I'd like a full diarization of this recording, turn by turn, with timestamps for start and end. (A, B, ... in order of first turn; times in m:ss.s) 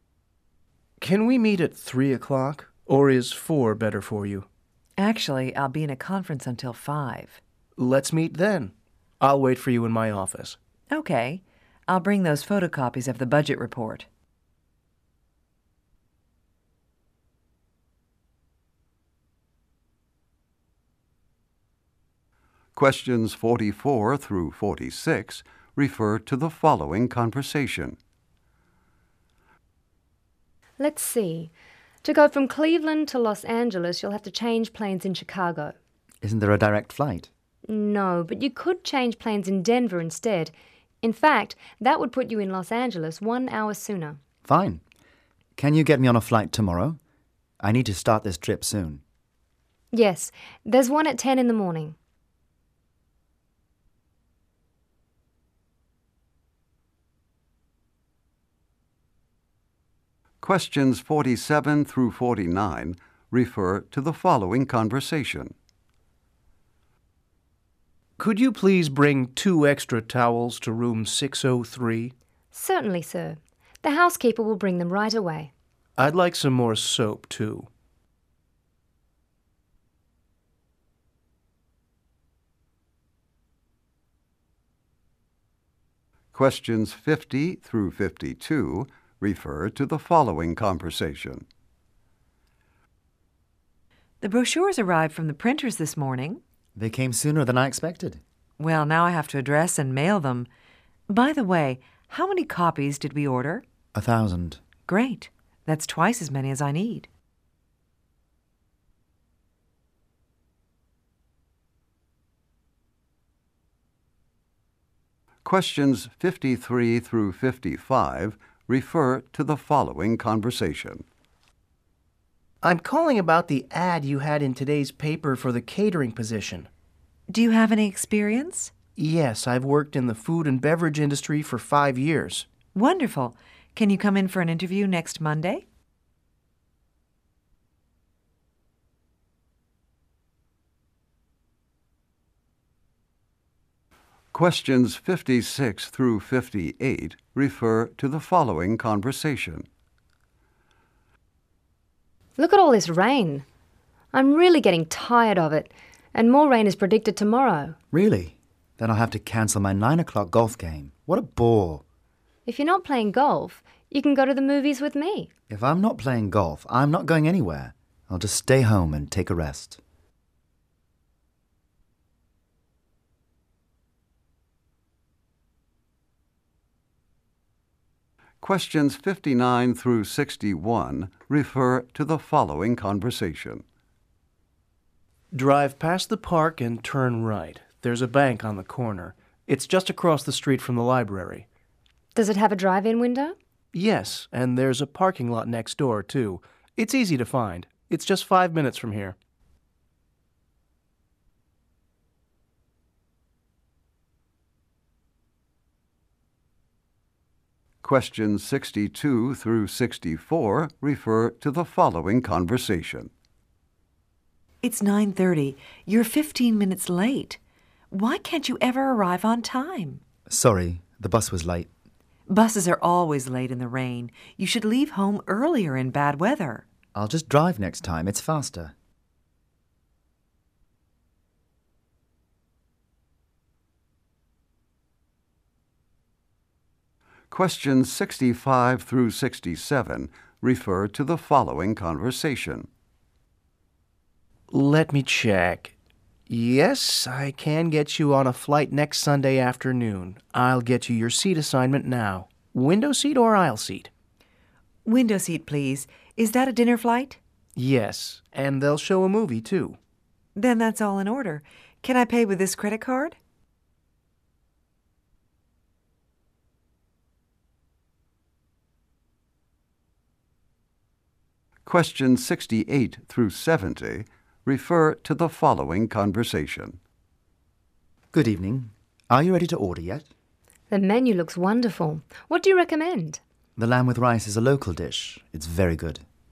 0:01.0-0:04.4 A
0:05.0-0:07.4 B
0:07.8-0:10.6 A
0:10.9-0:14.0 B
0:22.8-0:28.0 C
0:30.8-0:31.5 D
0:32.0-0:35.7 D
0:36.2-0:37.3 E
0:37.7-0:44.2 D
0:44.4-0:44.8 E
0:45.6-0:47.0 E
0:47.6-0:49.0 E
0:49.9-0:52.0 D
1:00.4-1:05.5 C
1:08.2-1:12.1 A
1:12.5-1:15.5 D
1:16.0-1:17.7 A
1:26.3-1:31.4 C
1:34.2-1:36.4 B
1:36.7-1:38.2 E
1:38.6-1:40.5 B
1:41.1-1:43.6 B
1:43.9-1:44.6 E
1:44.9-1:47.1 B
1:55.4-2:01.0 C
2:02.6-2:06.7 A
2:07.3-2:08.7 B
2:09.0-2:12.5 A
2:12.7-2:15.6 B
2:24.3-2:29.6 C
2:32.4-2:33.4 D
2:34.1-2:37.8 D
2:37.9-2:41.8 E
2:42.4-2:45.3 D
2:45.5-2:49.8 E
2:58.4-3:03.6 C
3:05.3-3:11.4 A
3:12.1-3:13.3 D
3:13.7-3:19.2 A
3:27.8-3:33.1 C
3:34.6-3:37.4 B
3:37.9-3:40.0 B
3:40.3-3:41.7 E
3:42.3-3:46.6 B
3:46.9-3:48.7 E
3:57.3-4:02.7 C
4:04.5-4:05.7 A
4:06.3-4:13.9 A
4:14.8-4:17.2 B
4:17.6-4:19.8 A
4:20.4-4:23.2 B
4:31.6-4:36.8 C
4:38.1-4:40.1 E
4:40.7-4:43.2 D
4:43.6-4:46.0 E